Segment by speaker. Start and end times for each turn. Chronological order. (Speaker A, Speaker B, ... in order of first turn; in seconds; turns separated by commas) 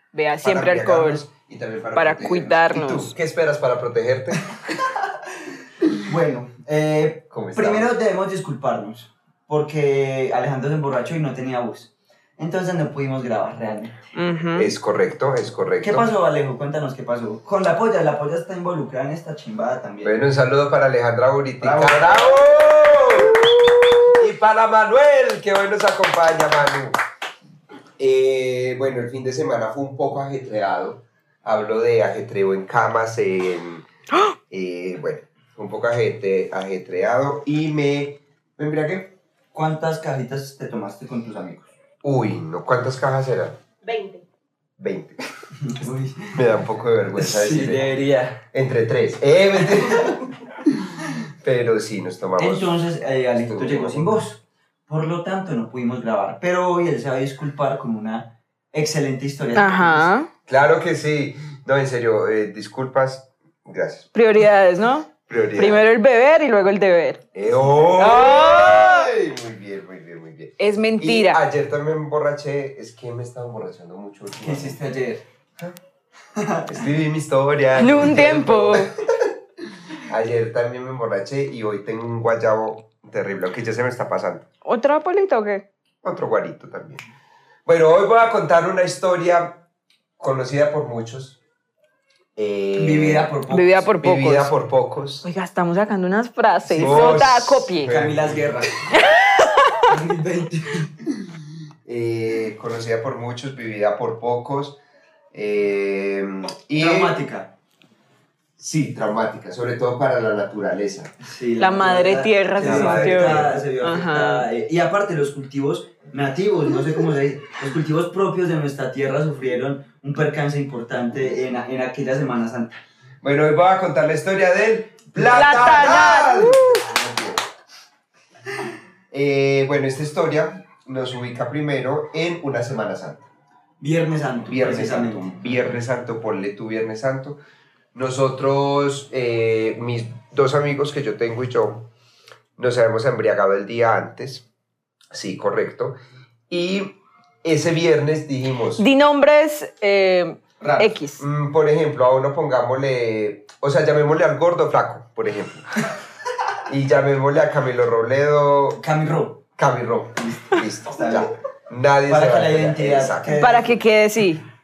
Speaker A: 0.1-1.2, Speaker B: 0.4-4.4, Speaker A: 1.9-3.1, Speaker C: 6.0-14.1, Speaker B: 7.3-8.0, Speaker A: 14.1-14.7, Speaker B: 14.6-16.1, Speaker C: 15.8-20.2, Speaker B: 20.0-27.0, Speaker C: 21.6-22.4, Speaker B: 28.0-33.9, Speaker B: 34.5-39.1, Speaker C: 39.5-41.7, Speaker B: 42.0-43.6, Speaker A: 43.8-44.2, Speaker B: 44.8-45.2, Speaker C: 45.6-46.6, Speaker B: 46.4-48.0, Speaker C: 47.2-48.4, Speaker B: 48.5-50.7, Speaker B: 51.4-52.8, Speaker C: 52.4-60.1, Speaker B: 53.4-54.2, Speaker A: 59.5-60.3, Speaker B: 60.5-64.1, Speaker A: 64.1-67.2, Speaker B: 65.3-65.9, Speaker B: 67.3-74.8, Speaker C: 67.5-68.0, Speaker A: 68.0-69.1, Speaker A: 70.6-71.4, Speaker C: 74.3-75.2, Speaker C: 76.4-76.7, Speaker B: 76.7-79.3, Speaker A: 77.8-78.9, Speaker B: 80.0-84.5, Speaker A: 84.6-85.6, Speaker B: 86.0-87.0, Speaker B: 87.7-89.6, Speaker B: 90.2-91.4, Speaker B: 92.4-93.3, Speaker C: 92.8-93.9, Speaker A: 93.5-94.5, Speaker B: 94.0-95.3, Speaker A: 95.2-97.9, Speaker C: 96.7-97.3, Speaker B: 96.8-98.6, Speaker C: 97.8-98.9, Speaker A: 98.9-99.6, Speaker C: 99.9-100.9, Speaker B: 101.8-104.8, Speaker B: 105.3-107.2, Speaker C: 106.8-107.5, Speaker B: 108.6-111.1, Speaker C: 111.2-122.8, Speaker A: 111.6-114.5, Speaker B: 112.6-113.6, Speaker B: 123.2-127.4, Speaker A: 125.2-126.8, Speaker C: 125.2-125.9, Speaker B: 129.1-133.3, Speaker C: 133.8-135.8, Speaker B: 134.5-137.4, Speaker B: 137.9-141.9, Speaker B: 142.6-144.5, Speaker B: 145.1-146.0, Speaker B: 146.5-148.8, Speaker A: 148.8-151.2, Speaker C: 150.6-150.9, Speaker B: 151.2-155.7, Speaker B: 156.7-158.8, Speaker C: 158.8-159.4, Speaker B: 159.6-163.4, Speaker C: 160.2-161.3, Speaker C: 162.0-163.8, Speaker A: 163.4-164.4